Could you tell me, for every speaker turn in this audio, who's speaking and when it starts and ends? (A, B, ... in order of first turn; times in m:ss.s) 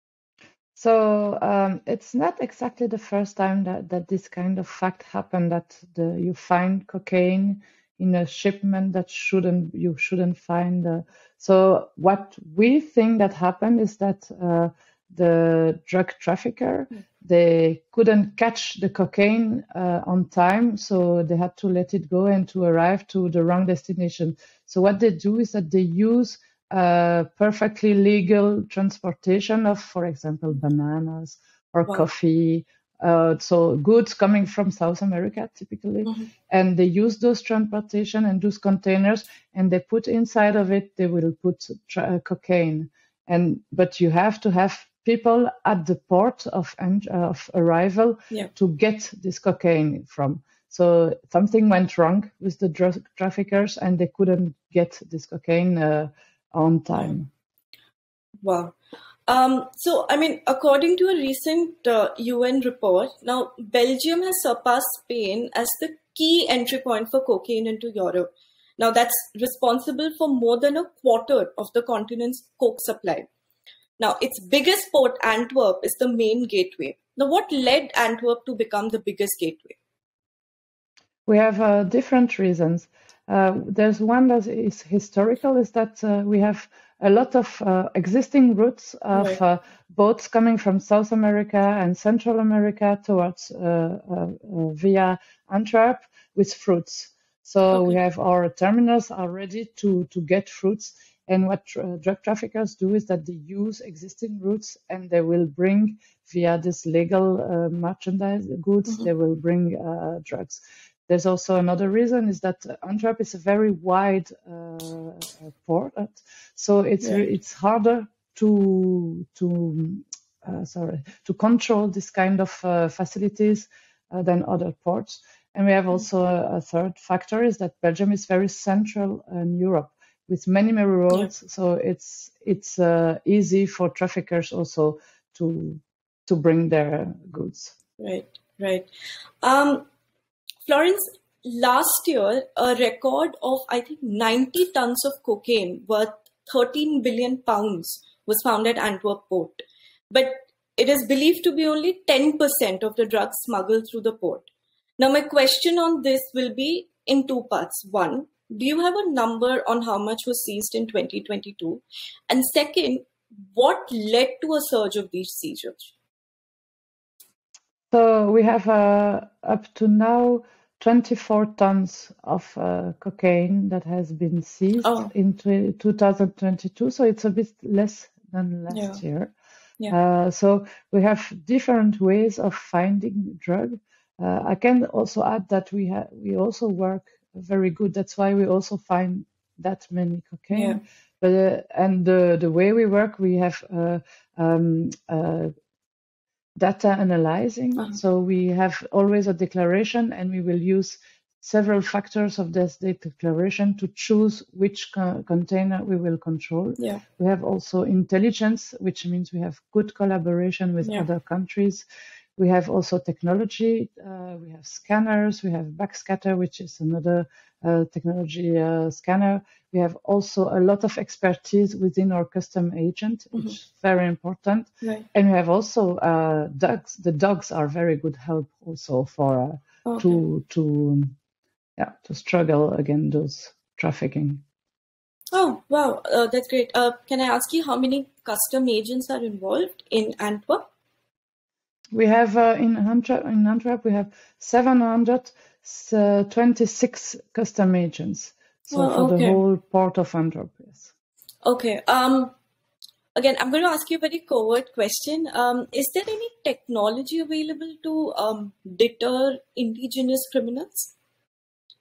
0:00.8-0:57.3 A
0:58.4-0:58.8 B
0:59.3-1:13.3 B
1:14.0-1:19.8 B
1:21.3-2:17.8 A
1:29.1-1:29.4 B
1:37.7-1:38.0 B
2:18.0-2:18.9 B
2:19.4-2:19.9 B
2:20.6-2:45.9 B
2:47.9-2:59.3 A
2:54.8-2:55.1 B
2:58.7-2:59.0 B
2:59.9-3:15.5 A
3:10.5-3:10.8 B
3:16.6-3:31.8 A
3:32.4-3:51.2 A
3:49.9-3:50.2 B
3:51.8-3:54.4 A
3:55.3-4:00.7 B
4:01.9-4:10.9 A
4:08.7-4:09.4 B
4:11.4-4:12.3 B
4:13.2-4:20.9 B